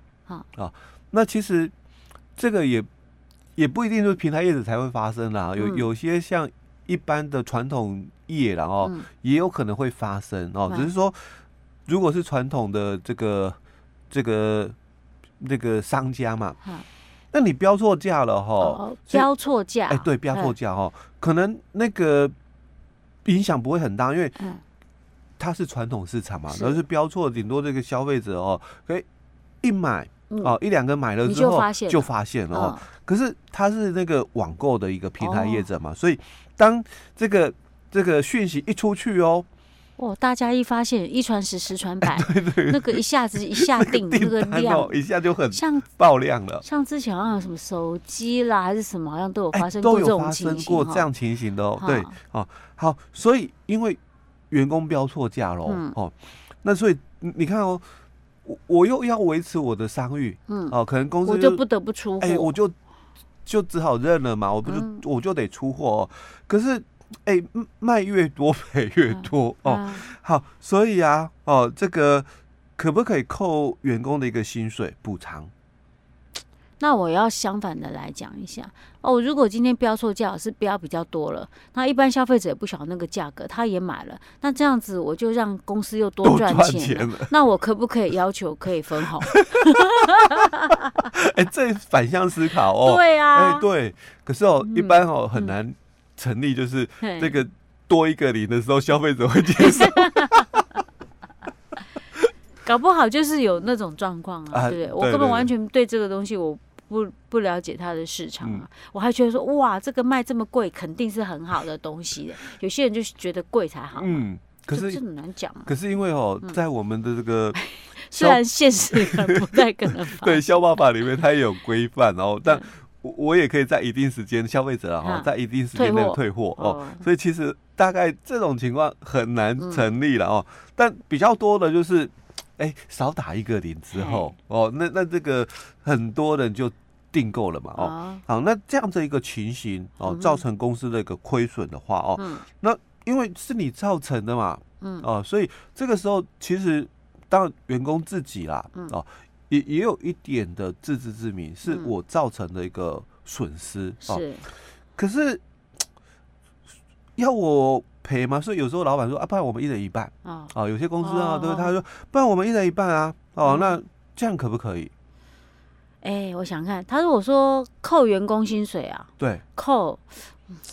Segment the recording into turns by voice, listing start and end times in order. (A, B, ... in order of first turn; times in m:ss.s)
0:00.6-0:01.7 A
0:02.4-0:02.9 A
0:03.6-0:13.6 A
0:05.6-0:05.9 B
0:08.8-0:09.1 B
0:14.1-0:14.8 A
0:15.4-0:16.6 A
0:17.3-0:19.3 A
0:18.6-0:20.6 B
0:19.9-0:22.4 A
0:23.2-0:24.4 A
0:25.4-0:29.1 A
0:26.5-0:26.8 B
0:29.6-0:39.5 A
0:30.3-0:30.6 B
0:31.2-0:32.8 B
0:35.2-0:35.7 B
0:40.0-0:45.0 B
0:42.0-0:43.0 A
0:43.5-0:46.6 A
0:45.5-0:45.9 B
0:46.6-0:51.1 B
0:49.5-0:54.0 A
0:51.8-0:52.1 B
0:54.5-0:57.8 A
0:55.7-0:55.9 B
0:58.4-1:01.6 A
1:00.5-1:02.5 B
1:02.2-1:02.8 A
1:03.4-1:15.5 A
1:04.6-1:05.0 B
1:09.1-1:10.0 B
1:16.8-1:31.0 B
1:26.2-1:27.3 A
1:31.1-1:40.5 A
1:32.8-1:33.6 B
1:34.6-1:35.5 B
1:37.0-1:37.4 B
1:39.6-1:40.5 B
1:42.6-1:55.7 B
1:44.5-1:45.5 A
1:48.4-1:48.7 A
1:54.0-1:55.0 A
1:55.6-1:57.6 A
1:57.6-2:00.6 B
1:58.1-2:34.3 A
2:05.0-2:07.1 B
2:09.6-2:09.9 B
2:13.9-2:14.3 B
2:17.8-2:18.2 B
2:20.0-2:20.4 B
2:22.2-2:22.4 B
2:24.8-2:25.1 B
2:31.7-2:31.9 B
2:34.0-2:34.5 B
2:35.0-2:35.4 A
2:37.2-2:44.9 A
2:40.2-2:41.7 B
2:43.4-2:43.8 B
2:46.0-2:50.4 B
2:49.2-2:49.4 A